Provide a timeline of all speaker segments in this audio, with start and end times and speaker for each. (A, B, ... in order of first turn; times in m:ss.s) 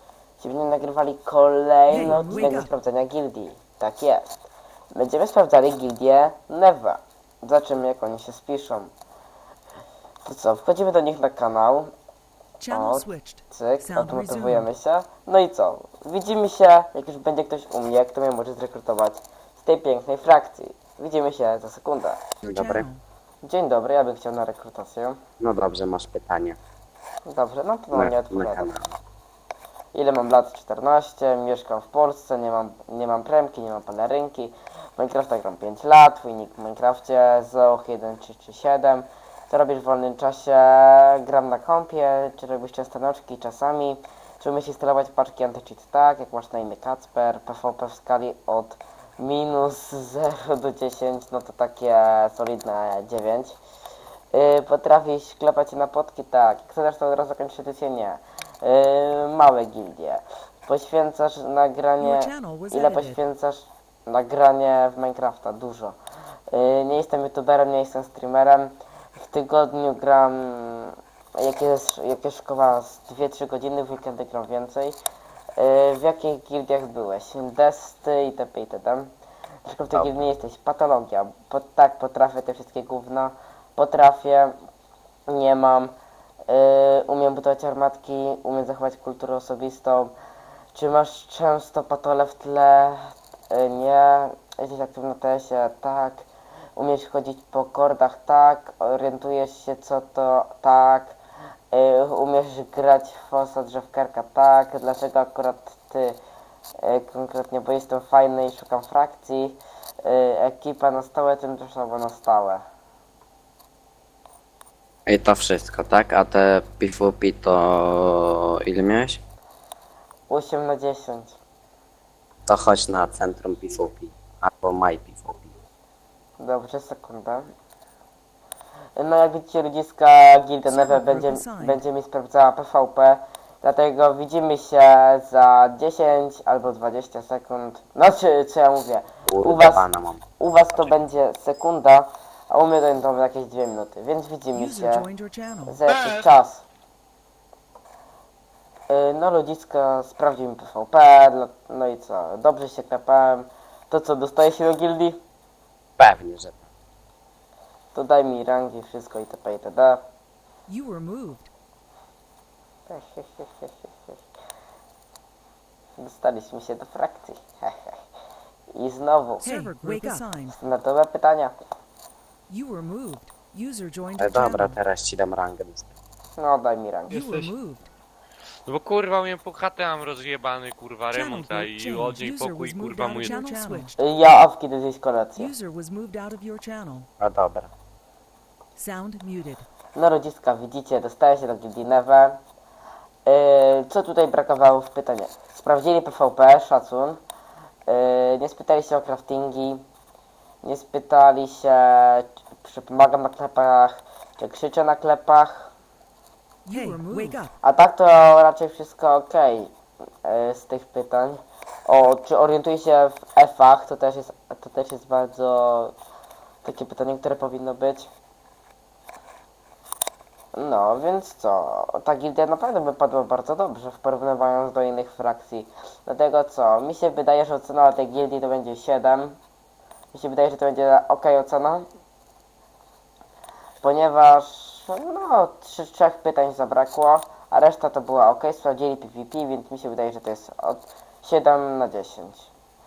0:00.4-0:04.4 A
0:01.9-0:02.7 B
0:04.9-0:08.9 A
0:10.2-0:11.9 A
0:12.6-0:14.7 B
0:12.7-0:22.3 A
0:22.4-0:22.9 C
0:22.4-0:23.0 B
0:23.4-0:25.2 A
0:25.4-0:26.6 C
0:27.3-0:28.7 A
0:27.9-0:29.0 C
0:29.9-0:53.6 A
0:54.3-1:06.0 A
1:02.0-1:03.2 B
1:06.5-1:15.0 A
1:15.6-1:19.1 A
1:19.7-1:24.6 A
1:19.9-1:20.3 C
1:25.3-1:25.9 A
1:26.5-1:30.1 A
1:30.7-1:41.2 A
1:41.7-1:46.2 A
1:46.8-1:52.6 A
1:55.1-1:59.2 C
2:00.3-2:01.4 A
2:02.5-2:05.6 C
2:06.4-2:07.5 A
2:09.0-2:25.1 A
2:10.6-2:11.8 B
2:19.3-2:20.2 C
2:24.5-2:25.8 B
2:25.7-2:26.6 A
2:28.9-2:35.2 A
2:36.0-2:36.7 C
2:37.9-2:40.0 A
2:40.7-2:41.5 B
2:42.9-2:44.2 A
2:46.0-2:48.0 A
2:48.7-2:49.5 A
2:49.4-2:50.6 B
2:50.6-2:51.6 A
2:52.5-2:54.8 B
2:54.2-2:55.9 C
2:56.4-2:57.2 A
2:57.1-2:57.5 D
2:57.1-2:57.9 B
2:58.7-3:03.8 D
3:01.1-3:04.0 B
3:04.0-3:05.5 A
3:05.4-3:07.1 B
3:07.2-3:07.7 C
3:08.8-3:09.7 B
3:10.0-3:12.4 A
3:13.3-3:17.2 A
3:17.9-3:19.8 A
3:20.6-3:25.7 A
3:26.7-3:27.5 B
3:27.6-3:29.7 A
3:30.2-3:36.0 A
3:36.6-3:38.1 A
3:40.5-3:49.4 A
3:50.1-3:51.9 A
3:53.8-4:02.5 A